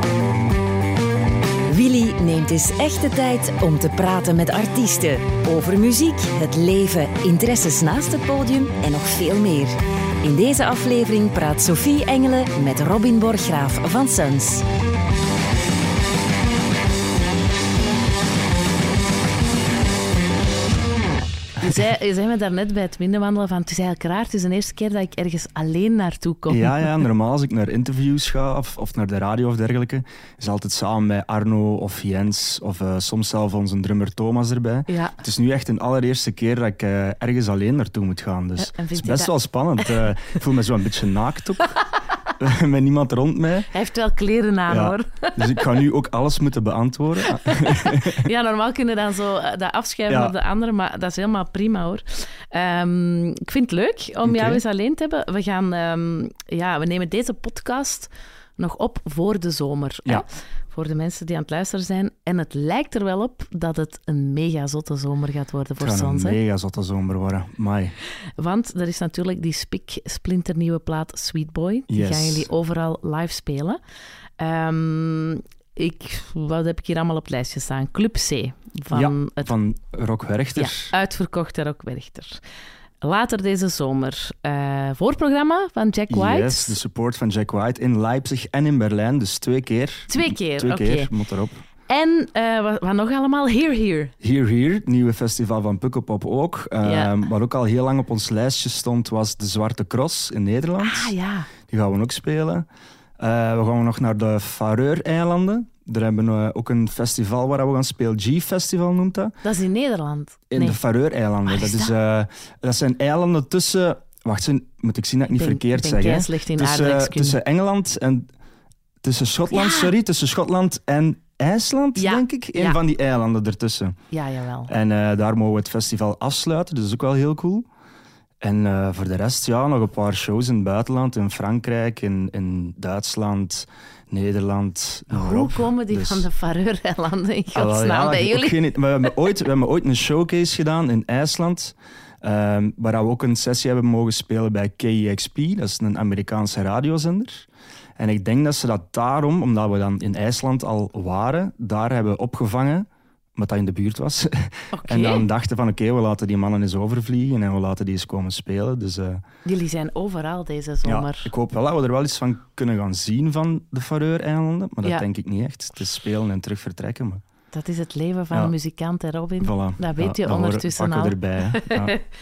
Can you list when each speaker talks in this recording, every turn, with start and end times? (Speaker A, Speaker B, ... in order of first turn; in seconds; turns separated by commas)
Speaker A: 1.7-14.7, Speaker B: 21.6-27.1, Speaker C: 26.5-41.8, Speaker B: 34.9-35.2, Speaker B: 38.6-39.3, Speaker C: 42.4-43.7, Speaker B: 43.7-45.6, Speaker C: 44.7-48.3, Speaker B: 47.3-66.4, Speaker C: 50.1-50.3, Speaker C: 54.2-54.6, Speaker C: 65.8-68.0, Speaker B: 68.4-73.8, Speaker C: 71.9-72.5, Speaker B: 74.4-79.5, Speaker C: 78.9-80.9, Speaker B: 80.5-82.4, Speaker B: 83.0-86.8, Speaker C: 86.1-91.6, Speaker B: 90.1-91.1, Speaker B: 91.9-94.1, Speaker C: 94.2-101.1, Speaker B: 96.8-97.1, Speaker B: 100.8-101.5, Speaker C: 101.7-102.7, Speaker C: 103.2-109.4, Speaker B: 109.4-110.8, Speaker C: 110.5-118.3, Speaker B: 111.5-111.9, Speaker B: 115.3-117.4, Speaker C: 119.0-124.0, Speaker B: 119.5-119.9, Speaker B: 122.0-122.8, Speaker B: 124.1-124.7, Speaker C: 124.7-127.7, Speaker C: 128.4-136.3, Speaker B: 135.1-138.6, Speaker C: 137.5-159.2, Speaker B: 154.7-155.3, Speaker B: 159.4-161.3, Speaker C: 160.8-167.2, Speaker B: 167.5-172.0, Speaker C: 169.4-171.9